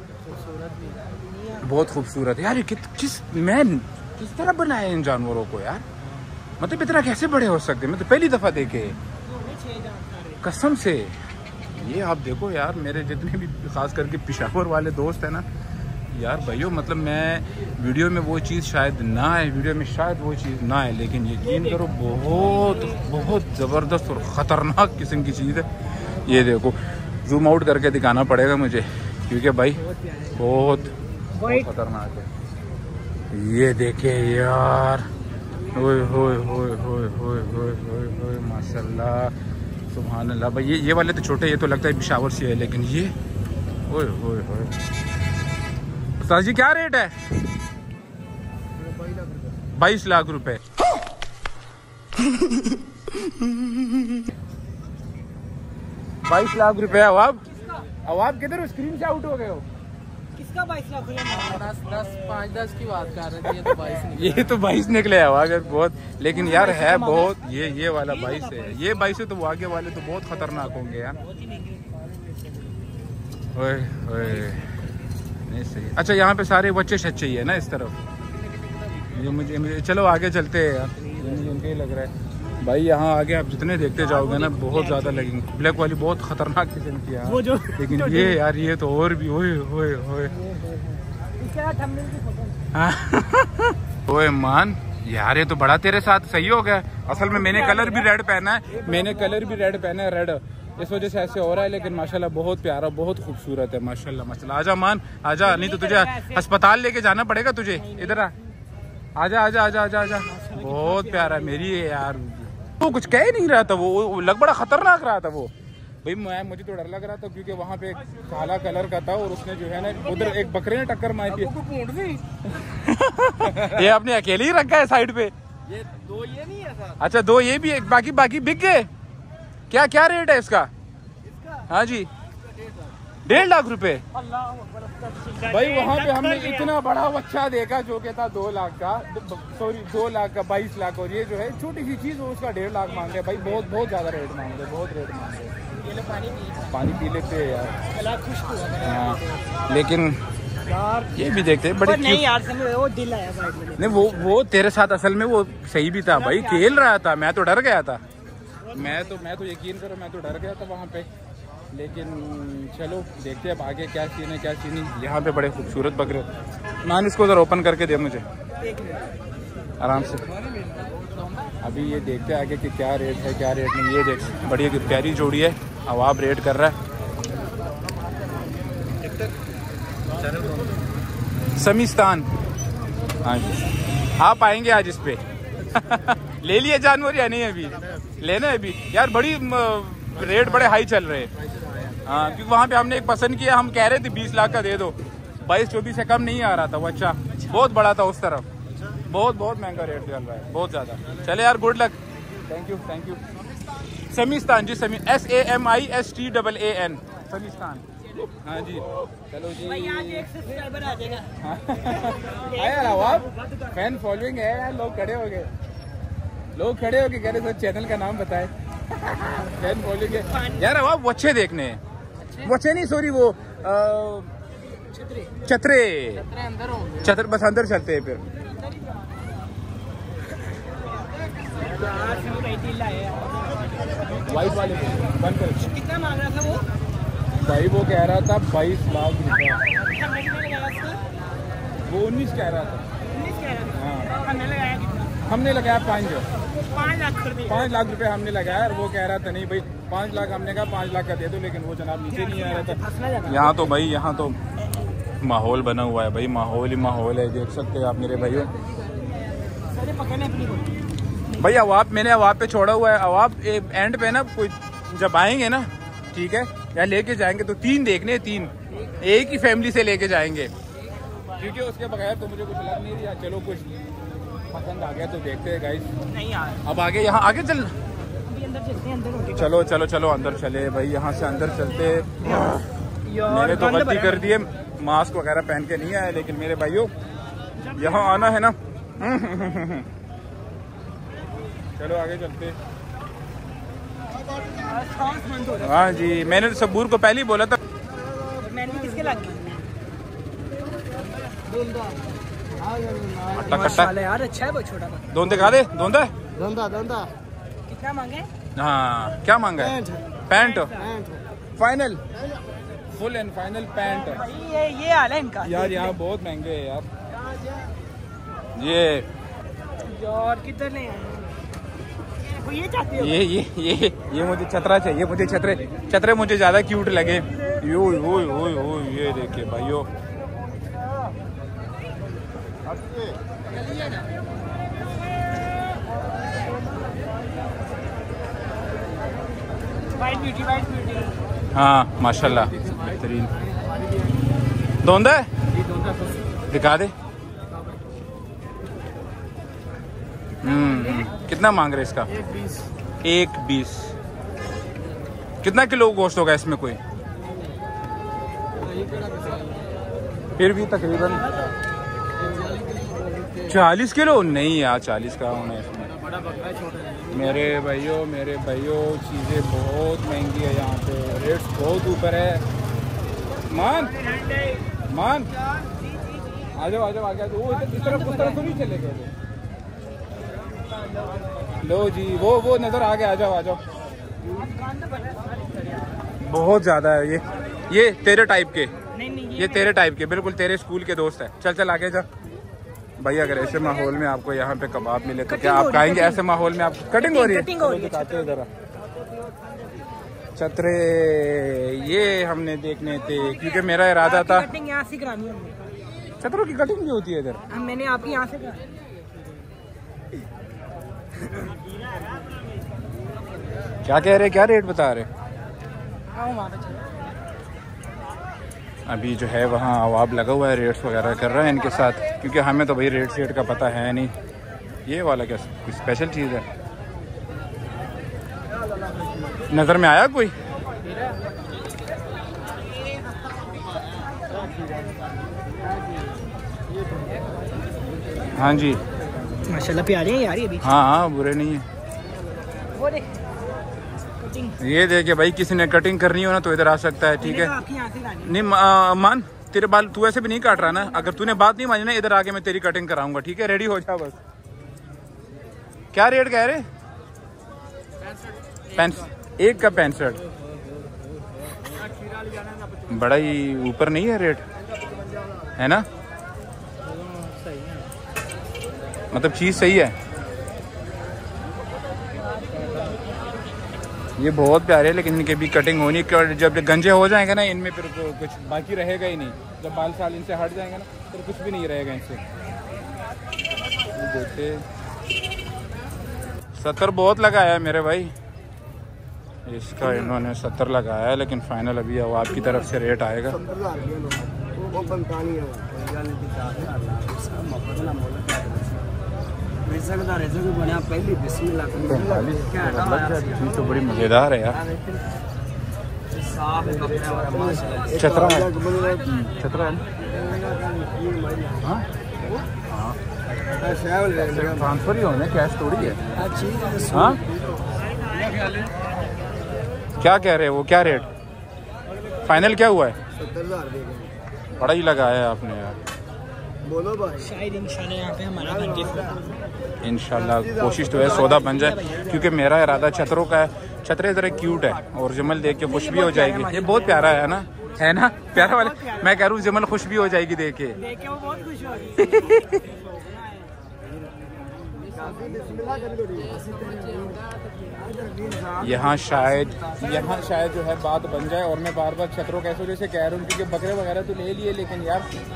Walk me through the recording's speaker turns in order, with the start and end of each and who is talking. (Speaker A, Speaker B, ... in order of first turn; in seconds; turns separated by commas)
Speaker A: 0.2-1.1, Speaker B: 1.3-1.6, Speaker C: 1.6-5.8, Speaker C: 6.6-9.0, Speaker B: 9.2-10.4, Speaker C: 10.4-11.2, Speaker C: 11.7-15.4, Speaker C: 16.1-25.7, Speaker B: 21.5-23.0, Speaker C: 26.2-29.8, Speaker B: 29.8-30.4, Speaker C: 30.3-30.9, Speaker B: 31.3-31.7, Speaker C: 31.5-32.3, Speaker C: 33.3-35.1, Speaker C: 35.7-39.3, Speaker C: 39.9-43.1, Speaker C: 43.9-44.7, Speaker C: 46.2-47.1, Speaker C: 49.7-50.6, Speaker C: 53.1-54.2, Speaker C: 56.3-57.4, Speaker B: 57.5-57.8, Speaker C: 58.0-59.6, Speaker B: 60.4-61.7, Speaker A: 61.3-64.5, Speaker C: 64.1-71.2, Speaker B: 66.3-67.3, Speaker B: 68.0-68.8, Speaker B: 71.2-71.8, Speaker C: 73.5-74.7, Speaker C: 75.5-78.0, Speaker C: 79.1-90.3, Speaker B: 84.0-85.3, Speaker B: 87.2-88.4, Speaker B: 90.3-92.6, Speaker C: 92.7-108.3, Speaker B: 97.2-98.1, Speaker B: 98.8-99.7, Speaker B: 105.4-106.5, Speaker B: 107.8-108.3, Speaker C: 109.2-115.5, Speaker B: 110.3-111.7, Speaker C: 116.0-121.5, Speaker C: 122.5-125.3, Speaker A: 126.2-126.6, Speaker C: 127.0-128.9, Speaker C: 129.7-130.7, Speaker C: 131.7-132.1, Speaker C: 133.2-134.0, Speaker B: 134.1-136.7, Speaker C: 135.4-145.5, Speaker B: 145.7-147.0, Speaker C: 146.7-147.7, Speaker B: 147.9-149.4, Speaker C: 148.8-150.2, Speaker B: 150.7-151.1, Speaker C: 151.1-152.2, Speaker B: 151.8-154.3, Speaker C: 153.8-158.0, Speaker B: 156.1-156.8, Speaker C: 158.7-161.1, Speaker C: 161.7-166.3, Speaker C: 166.8-168.2, Speaker C: 169.8-170.2, Speaker C: 171.6-176.8, Speaker C: 181.6-182.3, Speaker C: 183.2-183.5, Speaker C: 184.2-185.2, Speaker C: 185.7-191.3, Speaker C: 192.1-198.4, Speaker C: 199.1-202.0, Speaker C: 202.5-203.2, Speaker C: 204.1-210.2, Speaker B: 209.6-211.3, Speaker C: 211.4-215.5, Speaker B: 211.9-213.7, Speaker C: 216.6-218.5, Speaker C: 219.1-221.8, Speaker B: 220.1-220.7, Speaker A: 222.2-222.5, Speaker C: 222.4-224.3, Speaker B: 224.9-225.3, Speaker C: 225.4-226.2, Speaker A: 226.2-227.1, Speaker C: 227.0-228.2, Speaker B: 231.6-235.0, Speaker C: 234.1-235.7, Speaker B: 235.5-236.6, Speaker C: 237.4-239.6, Speaker B: 239.7-241.0, Speaker C: 241.8-242.8, Speaker B: 243.1-245.2, Speaker C: 243.7-244.1, Speaker C: 245.2-246.2, Speaker B: 246.7-247.7, Speaker C: 247.5-254.4, Speaker B: 252.1-253.7, Speaker C: 255.2-258.5, Speaker B: 259.7-261.4, Speaker C: 261.4-270.5, Speaker C: 271.4-273.7, Speaker C: 274.5-275.9, Speaker B: 276.1-276.6, Speaker C: 276.6-277.7, Speaker B: 278.3-279.5, Speaker C: 279.3-282.7, Speaker B: 282.2-284.3, Speaker C: 283.3-286.9, Speaker B: 287.6-288.3, Speaker C: 287.7-289.9, Speaker C: 291.8-292.6, Speaker B: 294.6-295.9, Speaker C: 295.6-297.6, Speaker B: 298.4-299.6, Speaker C: 303.3-303.9, Speaker B: 303.4-305.2, Speaker C: 305.1-306.1, Speaker B: 307.7-308.3, Speaker C: 308.6-310.7, Speaker B: 310.3-310.9, Speaker C: 311.6-312.0, Speaker C: 312.9-314.2, Speaker B: 313.8-315.9, Speaker C: 315.4-316.9, Speaker C: 318.6-319.1, Speaker B: 319.8-321.3, Speaker B: 322.2-323.1, Speaker C: 323.0-329.9, Speaker B: 340.0-341.1, Speaker C: 341.5-343.3, Speaker C: 344.8-345.3, Speaker C: 346.5-346.9, Speaker C: 350.4-352.1, Speaker B: 350.5-351.0, Speaker C: 353.0-353.9, Speaker C: 355.4-356.8, Speaker C: 360.4-361.3, Speaker C: 363.5-365.9, Speaker A: 366.0-367.0, Speaker C: 367.1-372.4, Speaker C: 373.5-373.9, Speaker B: 374.0-374.6, Speaker C: 374.9-375.3, Speaker C: 376.6-379.1, Speaker B: 377.5-378.4, Speaker C: 381.6-383.6, Speaker B: 384.2-385.9, Speaker C: 386.2-388.7, Speaker B: 388.9-389.7, Speaker C: 389.4-392.1, Speaker C: 393.0-398.5, Speaker B: 395.3-396.2, Speaker B: 396.9-398.3, Speaker C: 400.4-404.5, Speaker B: 403.1-405.6, Speaker C: 406.2-407.4, Speaker B: 407.5-408.7, Speaker C: 413.8-415.1, Speaker B: 416.1-416.9, Speaker C: 418.9-424.1, Speaker C: 424.9-426.4, Speaker C: 429.5-430.3, Speaker C: 438.3-438.8, Speaker B: 439.5-440.8, Speaker C: 440.6-441.6, Speaker B: 442.7-443.1, Speaker B: 444.2-444.6, Speaker C: 444.6-447.5, Speaker B: 447.2-448.3, Speaker C: 448.2-454.2, Speaker C: 455.9-456.6, Speaker A: 458.0-459.1, Speaker C: 458.8-460.2, Speaker A: 460.3-461.9, Speaker C: 462.9-464.4, Speaker C: 465.6-465.8, Speaker A: 466.8-467.9, Speaker C: 469.1-469.9, Speaker A: 472.5-473.0, Speaker C: 474.2-482.2, Speaker C: 483.9-484.6, Speaker C: 486.6-488.1, Speaker C: 489.5-493.4, Speaker B: 492.3-492.6, Speaker C: 501.7-504.6, Speaker C: 507.9-509.8, Speaker C: 512.6-513.0, Speaker C: 513.6-516.0, Speaker C: 516.9-517.2, Speaker C: 520.0-521.1, Speaker C: 522.2-523.0, Speaker C: 524.6-525.8, Speaker B: 527.2-529.3, Speaker C: 529.8-540.8, Speaker B: 531.0-532.0, Speaker B: 535.6-537.3, Speaker B: 538.3-539.2, Speaker B: 540.8-543.5, Speaker C: 542.0-542.6, Speaker A: 544.8-547.2, Speaker C: 548.6-555.1